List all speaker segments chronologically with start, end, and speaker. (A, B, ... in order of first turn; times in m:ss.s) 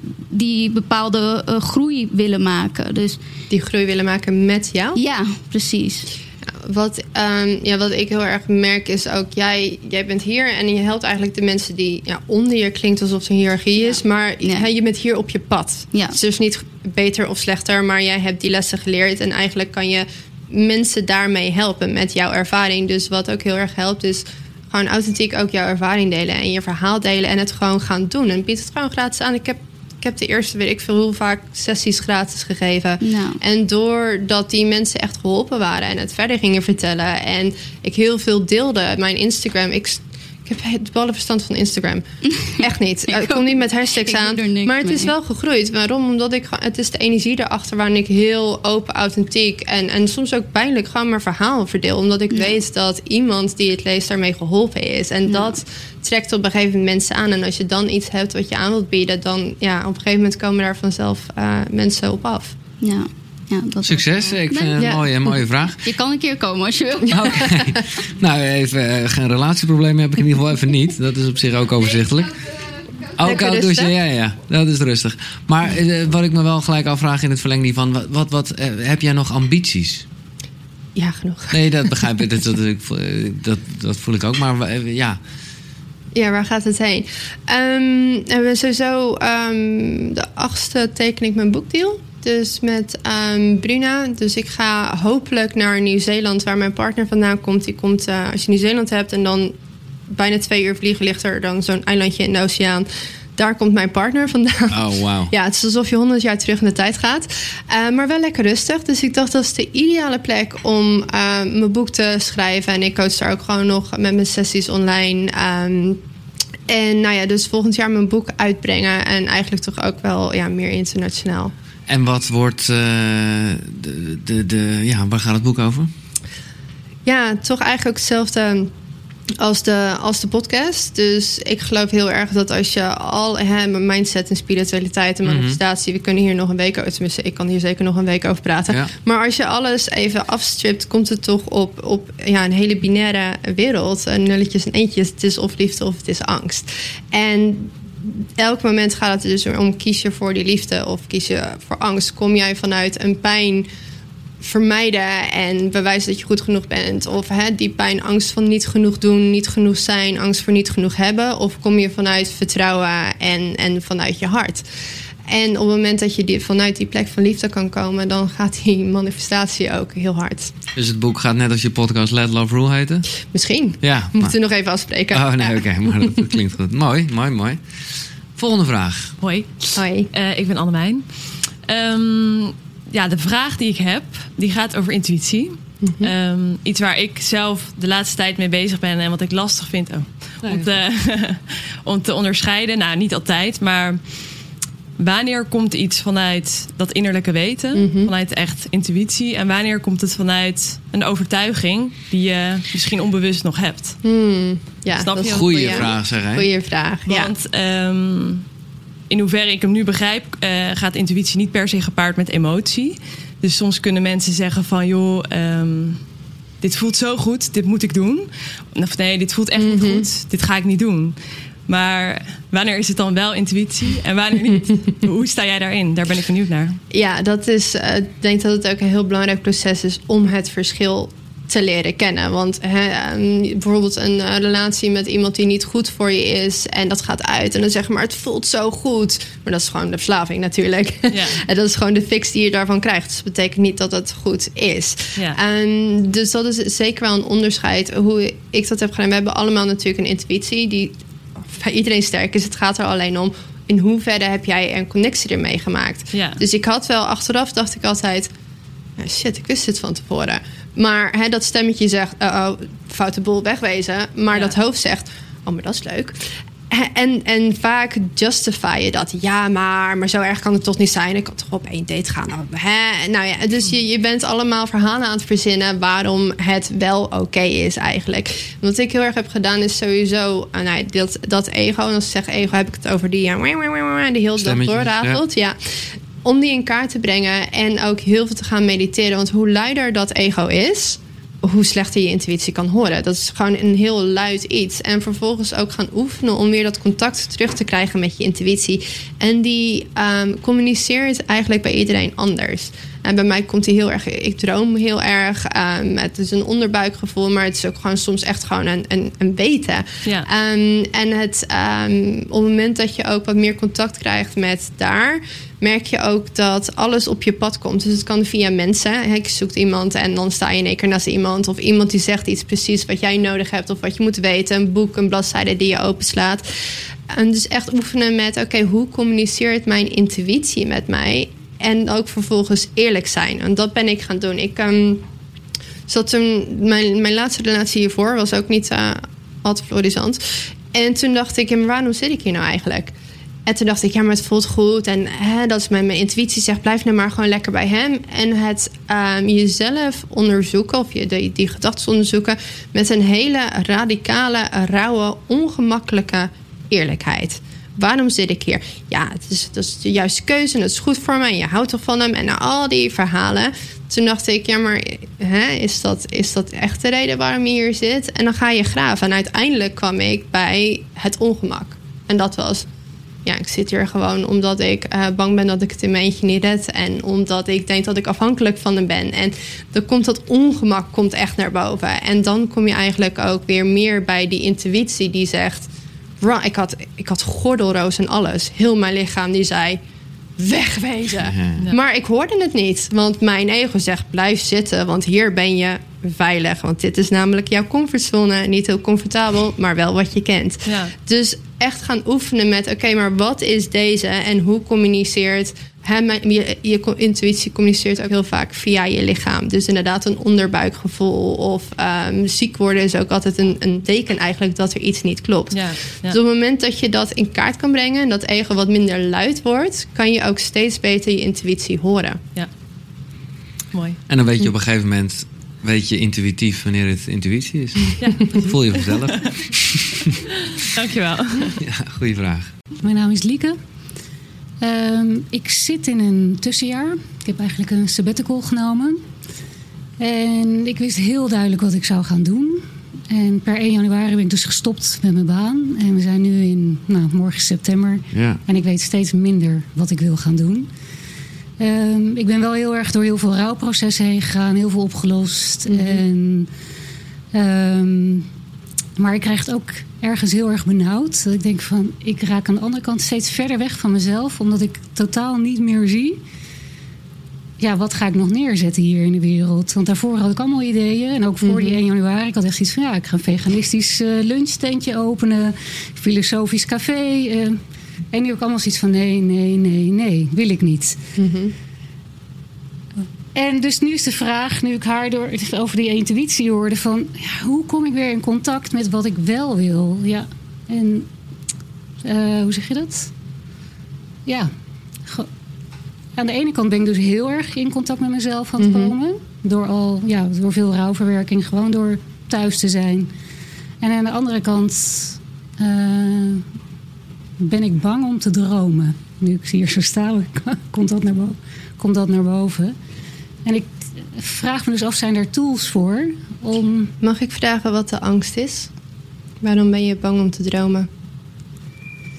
0:00.3-0:03.2 A
0:03.5-0:05.0 B
0:04.9-0:06.1 A
0:06.5-0:42.0 B
0:13.8-0:14.7 A
0:15.9-0:16.2 A
0:33.0-0:33.4 A
0:42.4-0:45.1 A
0:42.6-1:02.6 B
0:52.3-0:52.6 A
0:55.2-0:55.6 A
1:02.8-1:07.6 A
1:03.8-1:05.8 C
1:04.8-1:05.0 B
1:07.1-1:12.4 C
1:13.2-1:20.0 C
1:13.2-1:13.9 B
1:20.9-1:21.7 B
1:21.5-1:25.2 C
1:26.1-1:39.5 B
1:40.1-1:56.0 B
1:44.7-1:45.3 C
1:56.7-2:01.5 B
2:01.9-2:05.9 C
2:07.0-2:08.7 B
2:09.4-2:33.7 B
2:15.2-2:15.6 C
2:34.4-2:44.6 B
2:45.3-2:50.5 B
2:50.7-2:53.1 C
2:53.3-2:55.6 B
2:53.8-2:54.4 C
2:55.1-2:59.1 C
2:59.2-3:14.3 D
2:59.8-3:00.1 B
3:05.8-3:06.1 B
3:10.4-3:10.7 C
3:15.0-3:24.0 D
3:17.7-3:18.1 B
3:24.0-3:27.3 B
3:25.0-3:26.0 D
3:25.1-3:26.5 C
3:27.0-3:28.4 D
3:29.1-3:36.0 D
3:36.6-3:46.8 D
3:39.6-3:40.1 B
3:46.9-4:18.3 B
4:01.1-4:01.4 D
4:16.1-4:16.4 D
4:19.0-5:26.4 B
4:44.4-4:45.2 C
5:27.1-5:35.0 B
5:35.9-5:42.9 B
5:43.4-6:12.6 B
6:13.2-6:25.7 B
6:26.2-6:29.8 B
6:30.4-7:02.2 B
6:31.2-6:31.6 C
6:40.6-6:40.9 D
6:55.5-6:56.2 D
7:03.7-7:04.0 D
7:04.1-7:10.0 C
7:08.0-7:09.3 D
7:10.7-7:11.6 D
7:11.6-7:12.5 C
7:12.8-7:13.6 E
7:14.6-7:19.0 E
7:20.0-7:30.7 E
7:28.1-7:28.4 C
7:31.6-7:36.5 E
7:35.7-7:36.0 B
7:37.3-7:38.3 E
7:39.0-7:46.2 E
7:47.6-7:57.6 E
7:51.4-7:51.8 B
7:58.1-8:01.0 E
8:01.2-8:01.5 B
8:03.3-8:11.1 E
8:12.0-8:13.1 E
8:14.2-8:14.5 E
8:16.2-8:23.1 E
8:18.6-8:18.9 B
8:23.8-8:26.4 E
8:27.4-8:32.7 E
8:33.4-8:36.9 E
8:37.0-8:38.7 B
8:39.4-8:40.9 B